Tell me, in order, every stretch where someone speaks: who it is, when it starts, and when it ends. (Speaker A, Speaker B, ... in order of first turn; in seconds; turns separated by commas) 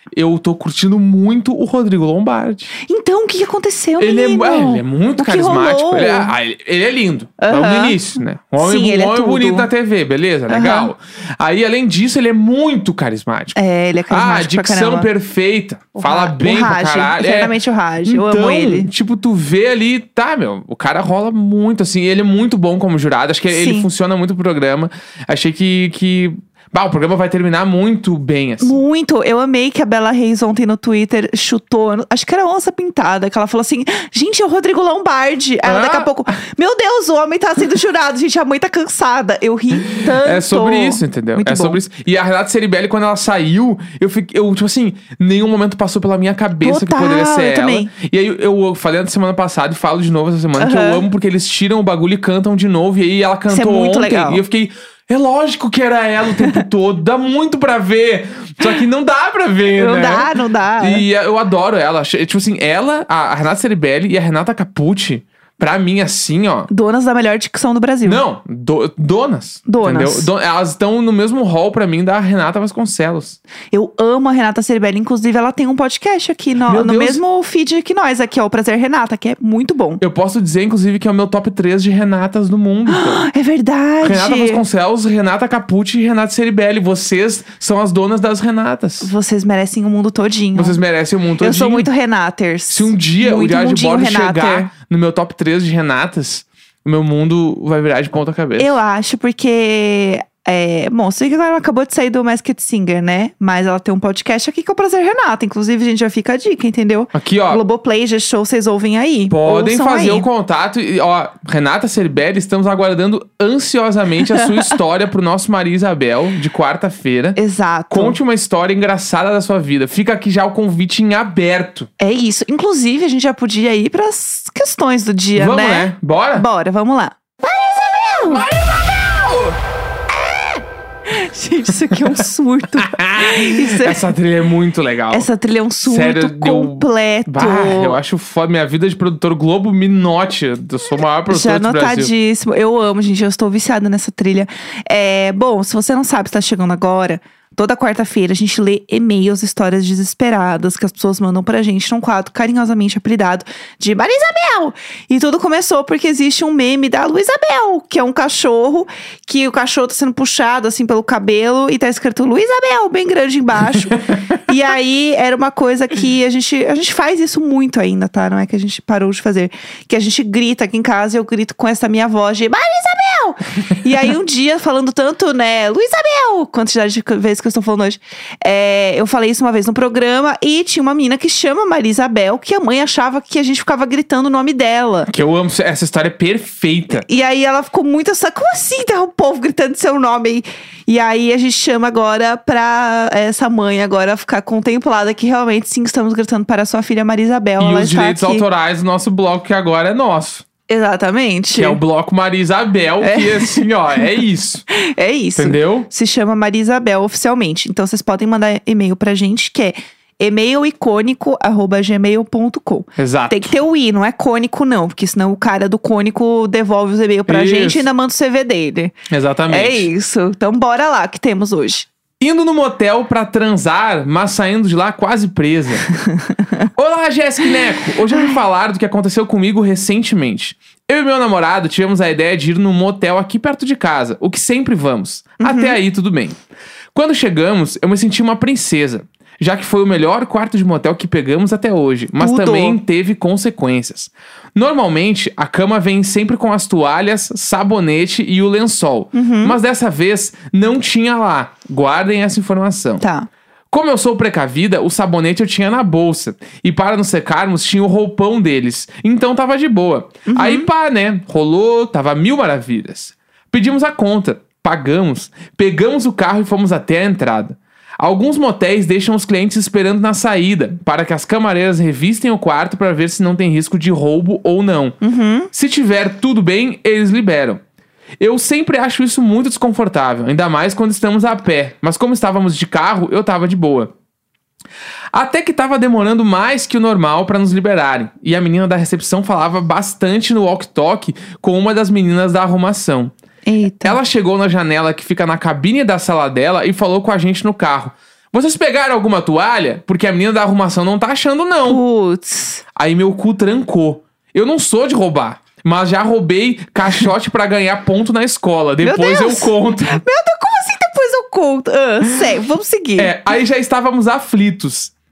Speaker A: 0.1-2.7, Speaker B: 2.9-6.3, Speaker A: 4.0-13.6, Speaker B: 7.4-8.0, Speaker B: 8.6-9.7, Speaker B: 10.5-10.9, Speaker B: 13.6-15.1, Speaker A: 14.1-28.8, Speaker B: 16.0-18.9, Speaker B: 23.5-23.9, Speaker B: 28.6-41.8, Speaker A: 35.6-36.1, Speaker A: 39.9-66.7, Speaker B: 46.6-47.9, Speaker B: 50.6-51.0, Speaker B: 53.5-54.4, Speaker B: 59.7-61.0, Speaker B: 66.7-68.2, Speaker A: 68.0-73.4, Speaker B: 69.7-70.3, Speaker B: 73.7-80.0, Speaker A: 76.7-77.2, Speaker A: 80.0-83.2, Speaker B: 82.9-84.6, Speaker A: 84.0-89.1, Speaker B: 89.0-90.8, Speaker A: 90.5-91.9, Speaker B: 91.4-94.7, Speaker A: 92.7-98.8, Speaker B: 98.6-110.3, Speaker A: 107.1-107.6, Speaker A: 109.3-117.4, Speaker B: 117.4-118.2, Speaker A: 117.9-121.9, Speaker B: 122.0-128.5, Speaker A: 125.3-126.5, Speaker A: 128.3-129.5, Speaker B: 131.1-134.1, Speaker A: 132.8-135.3, Speaker B: 135.1-138.0, Speaker A: 135.8-142.1, Speaker B: 141.3-185.1, Speaker A: 185.1-187.1, Speaker B: 186.9-198.5, Speaker A: 197.6-200.4, Speaker B: 200.7-201.8, Speaker A: 201.5-204.7, Speaker B: 203.0-203.7, Speaker B: 204.7-219.0, Speaker A: 205.4-205.9, Speaker A: 213.0-213.5, Speaker A: 217.3-217.9, Speaker A: 219.1-219.9, Speaker B: 219.5-221.9, Speaker A: 222.2-225.8, Speaker B: 225.9-226.7, Speaker A: 226.8-236.4, Speaker B: 227.9-228.4, Speaker B: 235.4-235.8, Speaker A: 236.9-253.0, Speaker B: 242.2-242.8, Speaker B: 249.1-249.6, Speaker B: 253.0-253.3, Speaker A: 253.7-275.0, Speaker B: 260.3-260.7, Speaker B: 275.0-275.5, Speaker A: 275.5-277.6, Speaker A: 278.2-283.9, Speaker A: 285.1-293.1, Speaker B: 293.5-294.0, Speaker A: 293.8-301.8, Speaker B: 301.7-302.6, Speaker A: 302.8-310.0, Speaker B: 308.8-313.2, Speaker A: 313.0-314.9